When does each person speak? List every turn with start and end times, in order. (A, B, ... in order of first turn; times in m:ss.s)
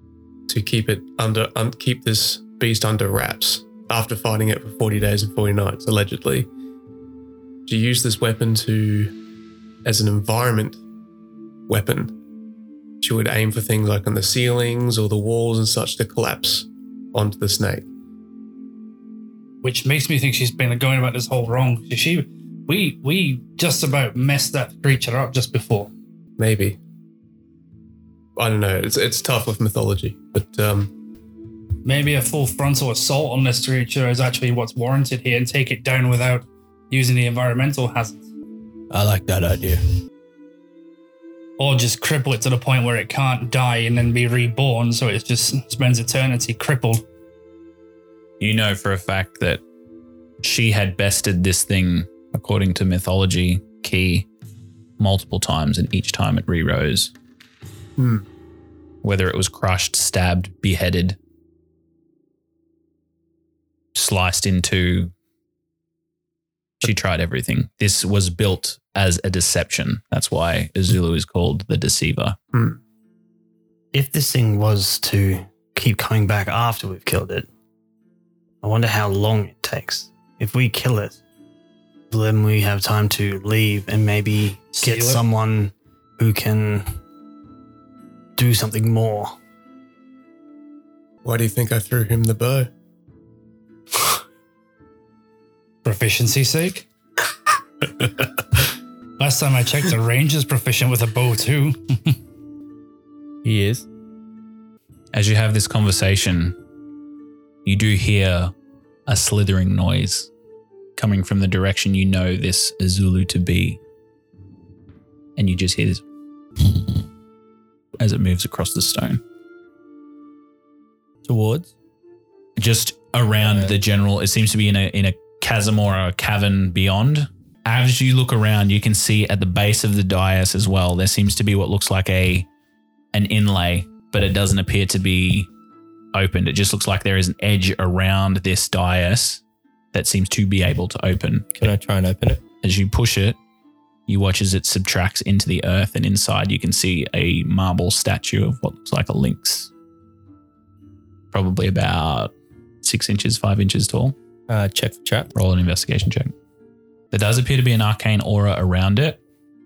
0:00.5-0:06.5 A
0:07.7-0:09.1 A
0:09.8-0:10.8 A
0:11.7-0:12.1 A
0:13.0-0:17.9 A
0:19.6-0:25.9 B
0:26.4-0:26.8 A
0:28.4-0:30.9 A
0:31.8-0:38.3 B
0:38.9-0:39.8 C
0:41.6-0:47.0 B
0:48.4-0:49.6 D
0:50.4-0:54.3 D
0:55.0-0:57.1 D
0:58.0-0:58.2 A
0:59.0-1:01.2 D
1:04.0-1:05.1 D
1:06.8-1:12.4 D
1:12.5-1:12.8 A
1:13.9-1:17.5 E
1:18.6-1:21.2 E
1:22.1-1:26.9 E
1:24.7-1:25.2 B
1:28.4-1:29.4 E
1:31.2-1:32.7 A
1:35.8-1:36.9 B
1:39.2-1:42.2 B
1:43.4-1:43.9 C
1:45.1-1:46.6 D
1:47.6-1:48.5 D
1:49.1-1:50.3 D
1:51.0-1:53.8 D
1:55.4-1:56.0 D
1:56.6-1:56.9 D
1:58.0-1:59.2 D
2:01.2-2:01.7 C
2:02.6-2:12.5 D
2:03.4-2:03.7 C
2:13.1-2:15.5 D
2:16.1-2:19.4 D
2:19.9-2:21.7 D
2:21.6-2:22.4 C
2:22.6-2:23.4 D
2:24.1-2:29.7 D
2:31.3-2:34.2 D
2:34.5-2:35.3 C
2:35.3-2:36.3 D
2:37.1-2:39.2 D